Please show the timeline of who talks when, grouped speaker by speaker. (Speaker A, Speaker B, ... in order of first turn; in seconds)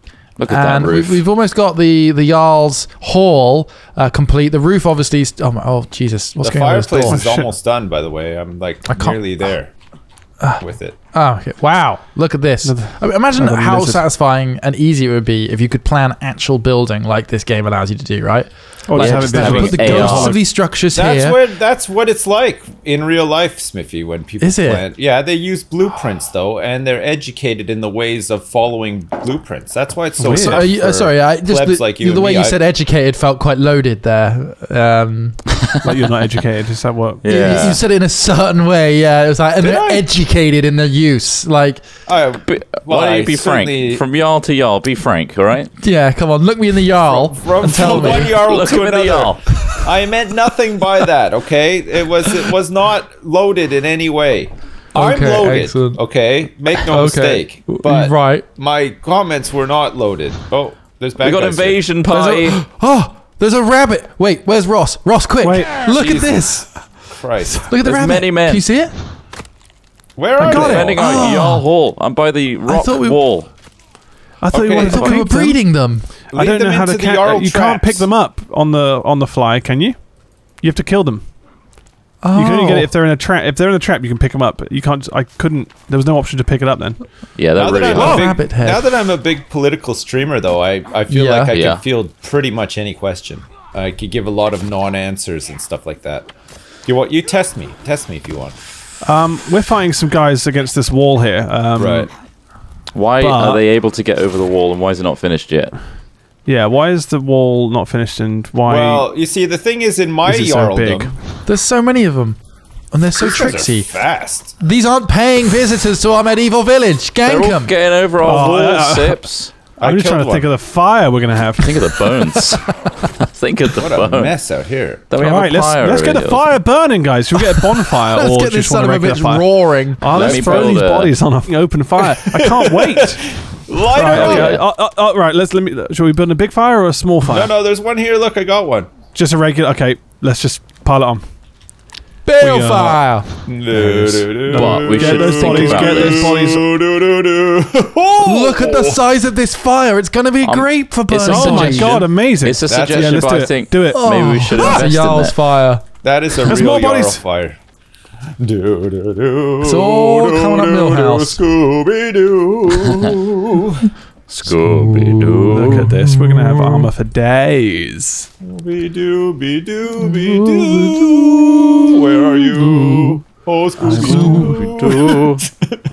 Speaker A: 0.4-1.2, 18.9-20.4, 37.2-37.8, 42.4-45.7, 48.1-49.9, 61.2-62.6, 67.7-68.7, 70.6-73.5, 74.9-75.3, 87.3-88.3, 91.5-91.8, 102.9-105.8, 117.2-119.5, 121.6-124.4, 125.1-126.6, 130.0-131.2, 134.1-134.6, 144.5-146.3, 150.4-155.5, 164.3-165.9, 174.4-175.4
Speaker B: 0.5-7.2, 8.9-9.5, 10.4-21.4, 24.4-24.8, 30.4-35.4, 37.2-41.8, 45.8-48.4, 54.9-56.1, 56.7-58.5, 62.1-68.9, 70.4-71.6, 72.7-73.2, 74.8-76.1, 82.2-82.9, 87.9-88.8, 91.1-91.5, 111.5-117.7, 128.1-130.6, 133.9-134.6, 142.2-143.4, 148.2-152.0, 153.9-155.8, 159.6-161.4, 164.4-166.9, 170.1-173.2, 173.8-174.6
Speaker C: 6.4-9.7, 10.6-11.0, 20.8-32.6, 39.6-40.1, 42.1-44.0, 47.0-61.9, 66.0-66.5, 67.1-67.7, 70.2-71.1, 74.5-75.0, 76.3-78.1, 87.5-96.3, 96.9-98.6, 101.8-102.1, 108.7-111.1, 113.2-114.6, 119.8-120.5, 123.8-125.0, 132.3-134.4, 137.2-138.9, 143.5-149.0, 152.7-153.1, 156.0-157.6, 158.4-163.8, 168.4-175.8
Speaker D: 7.1-7.5, 12.6-14.0, 18.9-20.4, 30.2-30.6, 35.8-37.8, 65.4-65.8, 70.4-71.1, 74.4-81.4, 82.3-87.3, 99.0-102.1, 103.2-103.7, 106.5-109.1, 110.2-111.2, 118.2-121.8, 125.2-137.6, 139.1-141.3, 142.4-143.1, 143.7-146.6, 151.2-154.9, 156.5-157.2, 165.5-168.3, 173.8-174.6